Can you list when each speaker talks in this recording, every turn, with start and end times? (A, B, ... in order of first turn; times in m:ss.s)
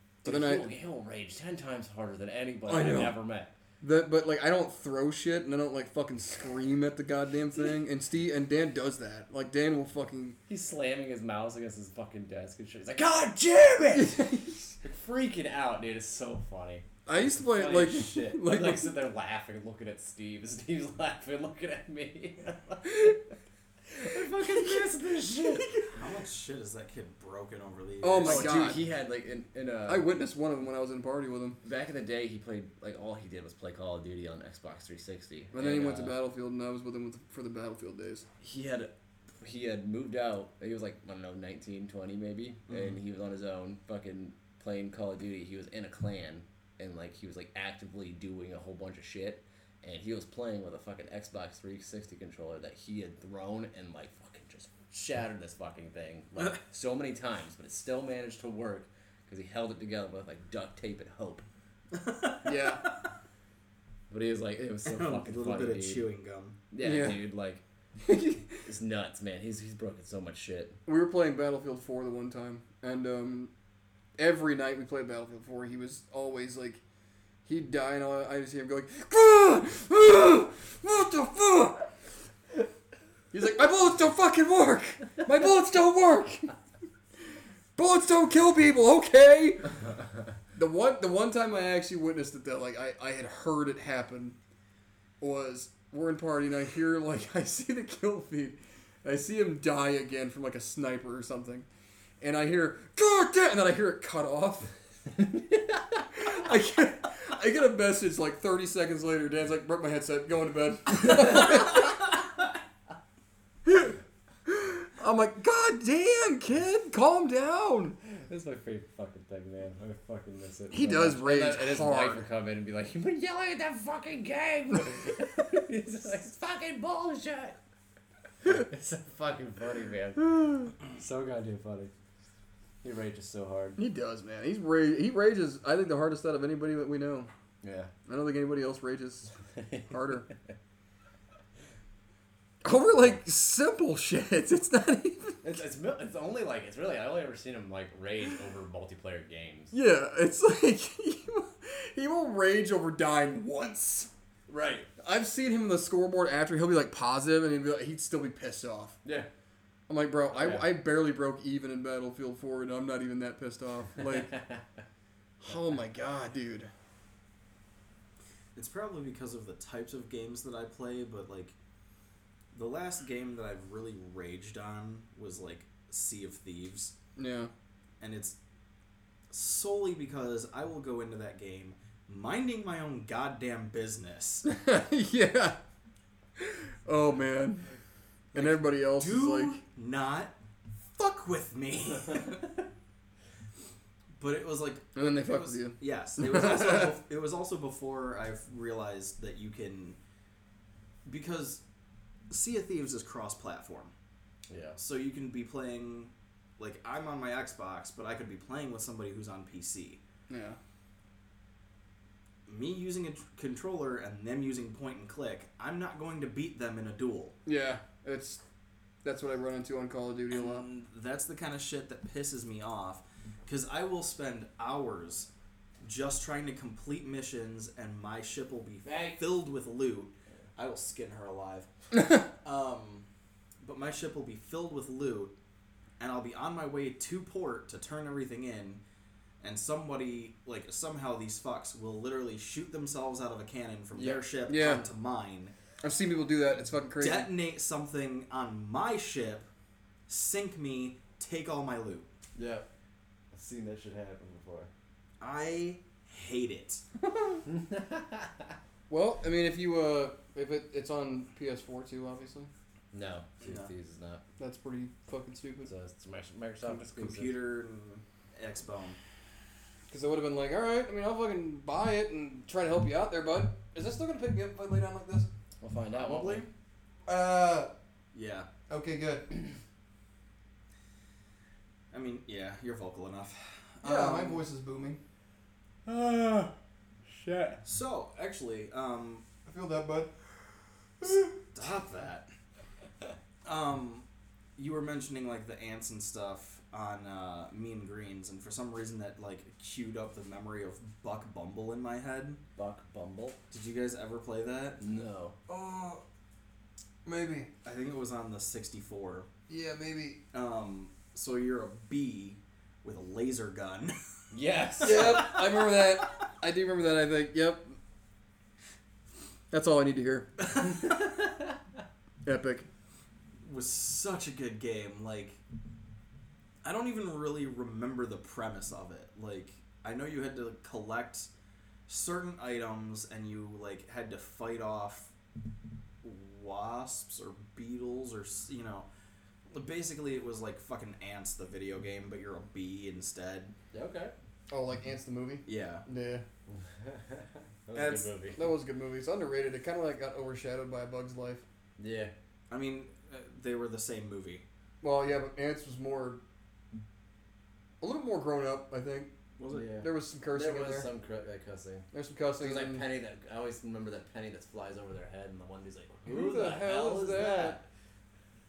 0:00.2-0:00.7 A
0:00.2-0:03.5 B
0:02.7-0:03.2 A
0:03.8-0:10.4 A
0:10.5-0:23.2 B
0:13.9-0:14.7 A
0:17.0-0:18.9 A
0:23.9-0:25.8 B
0:25.6-0:25.9 A
0:25.9-0:28.7 C
0:28.0-0:28.8 A
0:28.2-0:30.1 B
0:29.9-0:31.6 A
0:31.6-0:36.2 B
0:35.5-0:38.2 A
0:38.4-1:01.4 B
0:42.7-0:43.0 C
1:01.9-1:02.9 C
1:02.4-1:02.8 A
1:04.1-1:06.0 B
1:04.8-1:06.6 C
1:06.7-1:07.6 B
1:06.8-1:07.2 A
1:08.0-1:08.6 A
1:08.6-1:10.8 B
1:10.8-1:13.5 A
1:14.2-1:16.8 A
1:17.4-1:21.9 A
1:23.3-1:26.5 A
1:27.8-1:29.8 A
1:30.5-1:34.4 A
1:35.2-1:41.7 A
1:42.2-1:44.7 A
1:46.1-1:52.0 A
1:53.6-1:54.0 A
1:54.5-1:58.0 A
1:58.0-2:07.6 B
2:00.7-2:02.2 A
2:08.4-2:11.9 B
2:12.8-2:13.8 B
2:13.8-2:17.3 A
2:17.6-2:17.9 B
2:18.1-2:19.3 A
2:19.6-2:19.9 B
2:19.9-2:20.3 A
2:22.6-2:25.5 A
2:25.4-2:29.7 B
2:29.7-2:34.1 A
2:34.5-2:34.9 B
2:35.0-2:39.0 A
2:39.0-2:39.3 B
2:39.9-2:44.4 A
2:40.3-2:40.8 B
2:44.3-2:44.6 B
2:45.4-2:46.7 A
2:48.6-2:51.5 C
2:52.5-2:56.9 C
2:57.2-2:57.5 A
2:58.0-2:58.4 C
2:59.3-3:04.4 C
3:04.4-3:05.6 A
3:06.4-3:07.7 A
3:08.3-3:09.6 A
3:08.3-3:10.3 C
3:10.9-3:12.6 C
3:14.2-3:20.0 C
3:14.9-3:16.9 A
3:21.0-3:21.6 C
3:22.3-3:23.9 C
3:24.5-3:24.8 B
3:24.8-3:30.0 C
3:30.3-3:30.6 A
3:32.5-3:37.4 C
3:37.4-3:38.4 A
3:39.0-3:40.6 A
3:40.3-3:45.3 C
3:45.8-3:53.0 C
3:48.8-3:49.2 B
3:53.6-3:55.3 C
3:56.0-3:58.8 C
3:59.4-4:05.5 C
4:03.9-4:04.2 B
4:04.5-4:04.8 A
4:05.8-4:07.3 A
4:07.0-4:09.5 C
4:10.1-4:12.1 C
4:12.3-4:12.7 B
4:13.3-4:14.7 B
4:15.2-4:16.8 C
4:17.5-4:18.6 B
4:18.9-4:22.5 A
4:22.9-4:24.2 B
4:23.4-4:23.7 C
4:24.4-4:25.7 A
4:25.6-4:27.3 B
4:26.6-4:29.0 C
4:29.9-4:35.3 A
4:35.6-4:36.4 B
4:36.0-4:36.5 C
4:37.0-4:37.7 A
4:38.1-4:38.5 C
4:38.7-4:39.4 A
4:41.9-4:44.4 C
4:43.8-4:45.0 A
4:45.8-4:46.5 B
4:47.0-4:47.6 B
4:47.6-4:49.2 C
4:49.4-4:50.1 A
4:51.0-4:51.3 A
4:51.5-4:52.3 C
4:53.4-4:54.0 C
4:54.6-5:02.4 C
5:02.6-5:03.4 B
5:03.5-5:04.8 C
5:04.8-5:05.4 B
5:05.5-5:06.0 A
5:07.0-5:07.5 A
5:07.6-5:09.3 C
5:09.5-5:10.2 A
5:10.3-5:14.0 C
5:14.3-5:15.4 B
5:14.8-5:17.8 A
5:14.8-5:15.4 C
5:19.5-5:20.3 A
5:20.7-5:21.5 B
5:22.2-5:22.7 A
5:23.4-5:25.4 C
5:26.6-5:31.3 C
5:31.9-5:35.1 C
5:36.0-5:38.9 C
5:39.5-5:43.5 C
5:43.7-5:44.1 B
5:44.5-5:46.2 A
5:45.4-5:45.8 C
5:46.5-5:48.5 B
5:47.7-5:48.1 C
5:48.4-5:51.4 A
5:51.8-5:52.1 B
5:52.5-5:54.4 C
5:54.8-5:56.2 A
5:57.8-5:59.1 A
5:59.4-5:59.7 C
5:59.5-6:01.9 B
5:59.8-6:00.9 A
6:01.9-6:02.9 A
6:02.4-6:07.6 B
6:06.0-6:07.6 A